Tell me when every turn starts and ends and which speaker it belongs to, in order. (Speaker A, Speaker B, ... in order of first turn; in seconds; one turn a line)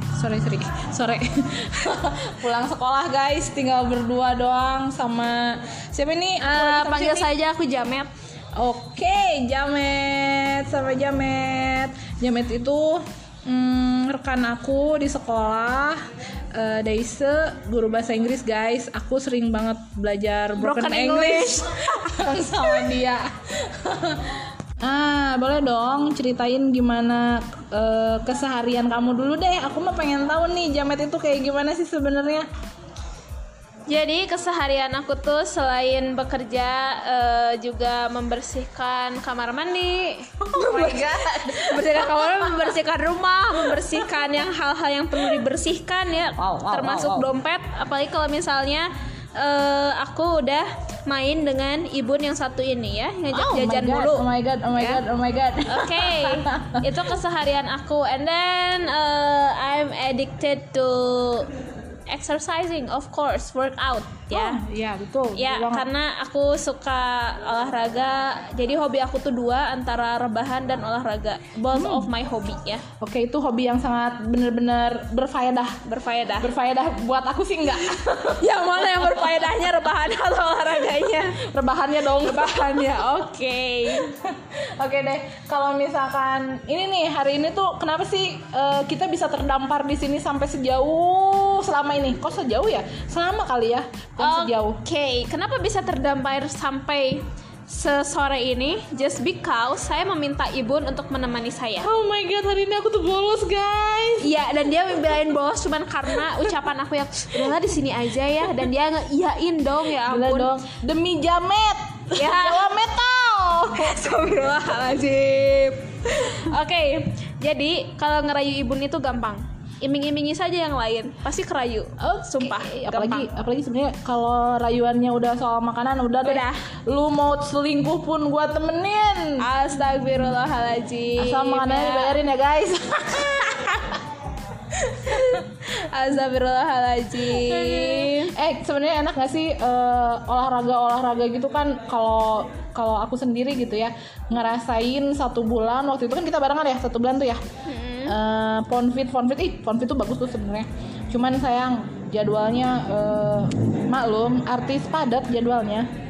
Speaker A: 0.1-7.3
Speaker B: 6.4-8.1
Speaker A: 8.6-16.0
Speaker A: 16.6-32.5
Speaker B: 20.6-22.1
Speaker B: 33.9-55.0
Speaker A: 40.4-42.8
Speaker A: 43.5-44.3
Speaker A: 46.3-47.3
Speaker A: 53.3-56.9
Speaker B: 55.7-61.5
Speaker B: 62.1-64.6
Speaker A: 64.3-65.9
Speaker B: 65.4-72.9
Speaker A: 71.7-72.1
Speaker A: 73.0-75.8
Speaker B: 75.8-76.5
Speaker A: 76.4-79.5
Speaker B: 78.3-81.4
Speaker A: 81.4-83.1
Speaker B: 82.2-84.2
Speaker A: 83.9-94.8
Speaker B: 94.2-101.9
Speaker A: 101.8-104.3
Speaker B: 104.2-110.5
Speaker A: 106.1-106.5
Speaker A: 110.0-114.0
Speaker B: 112.2-112.7
Speaker B: 113.7-123.3
Speaker A: 122.0-129.4
Speaker B: 126.2-126.6
Speaker B: 129.4-132.2
Speaker A: 131.2-134.0
Speaker B: 134.7-138.3
Speaker A: 137.2-147.4
Speaker B: 147.7-148.2
Speaker A: 148.1-155.9